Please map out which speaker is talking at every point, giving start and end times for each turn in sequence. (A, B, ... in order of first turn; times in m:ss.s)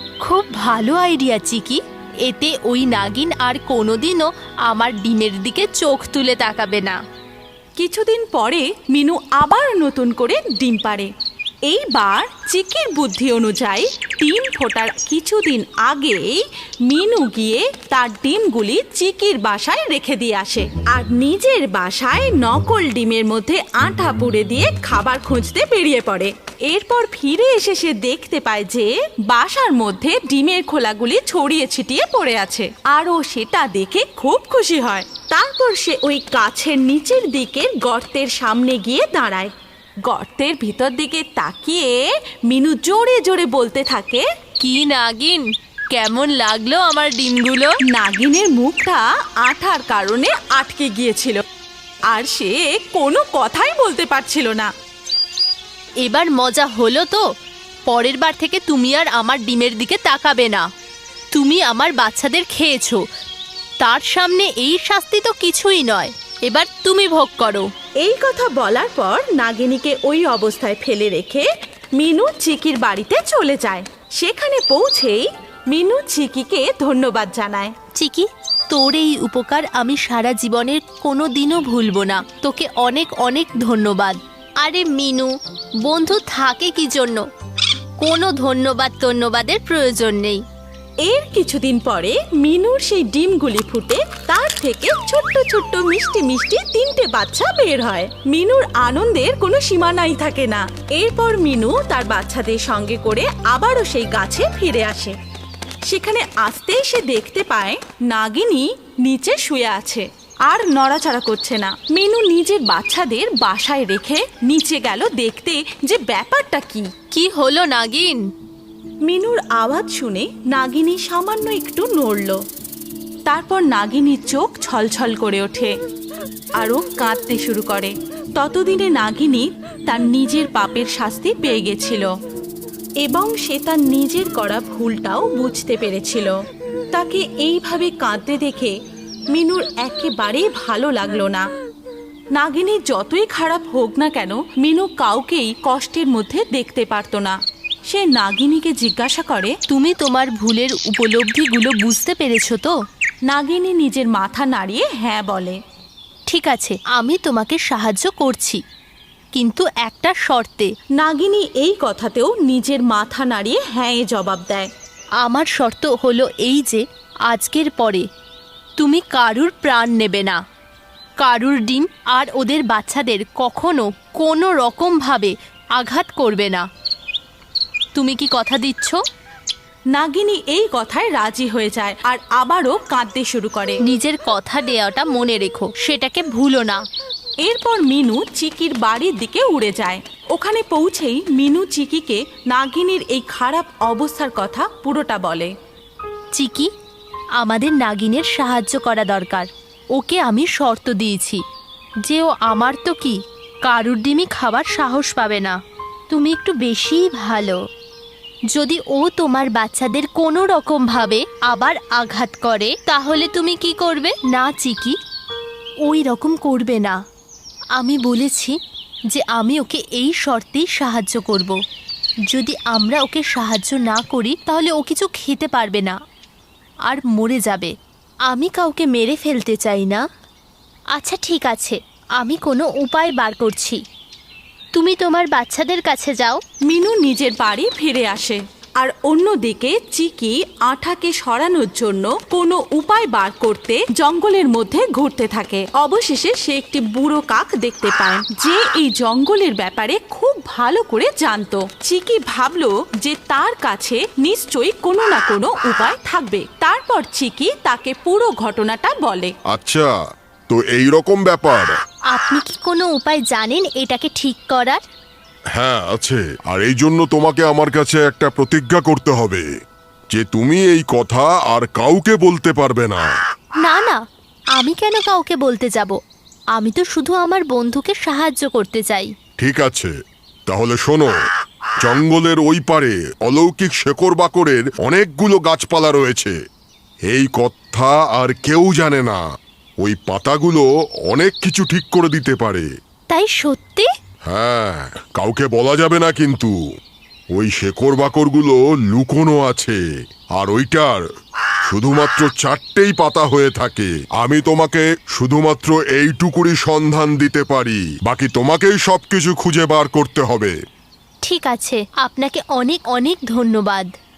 0:00.2-0:07.0 A
0:07.8-0:11.1 B
0:11.7-0:39.5 B
0:40.0-0:44.2 B
0:44.6-0:47.7 A
0:47.9-0:51.4 B
0:52.1-0:54.7 B
0:56.0-0:57.2 A
0:57.9-1:00.6 A
1:01.3-1:03.0 A
1:03.8-1:07.7 A
1:08.0-1:17.7 B
1:18.0-1:25.3 A
1:25.8-1:27.2 A
1:28.0-1:30.4 A
1:31.0-1:45.2 B
1:45.9-1:56.9 B
1:57.1-1:58.2 A
1:59.0-2:02.4 B
2:03.3-2:05.7 B
2:06.6-2:12.1 B
2:13.0-2:16.4 B
2:16.9-2:18.7 B
2:19.3-2:21.4 B
2:22.4-2:29.6 B
2:29.7-2:32.7 A
2:33.3-2:35.6 B
2:36.3-2:38.6 A
2:39.3-2:40.7 A
2:41.0-2:44.7 B
2:45.2-2:48.0 A
2:48.8-2:50.4 A
2:51.2-2:56.6 A
2:57.9-2:59.0 A
2:59.9-3:03.8 B
3:03.9-3:06.8 A
3:07.4-3:15.5 B
3:16.3-3:16.7 A
3:17.4-3:21.4 A
3:22.0-3:25.5 A
3:26.1-3:27.6 A
3:28.5-3:34.9 A
3:35.8-3:37.0 A
3:37.8-3:38.5 A
3:39.1-3:41.6 A
3:42.3-3:45.9 A
3:46.9-3:47.7 A
3:48.3-3:50.0 A
3:50.9-3:53.8 A
3:54.7-3:56.4 A
3:56.7-4:19.3 B
4:19.5-4:19.9 C
4:20.5-4:21.7 C
4:22.1-4:24.8 A
4:25.6-4:29.4 C
4:30.1-4:33.1 C
4:33.6-4:34.0 A
4:34.6-4:35.9 A
4:36.6-4:39.1 A
4:39.4-4:39.9 C
4:40.5-4:41.1 C
4:41.8-4:46.4 C
4:47.0-4:49.2 C
4:49.8-4:52.7 C
4:53.1-4:53.9 A
4:54.3-4:56.5 C
4:57.3-4:59.8 C
5:00.3-5:01.0 C
5:01.7-5:10.5 C
5:11.2-5:13.9 A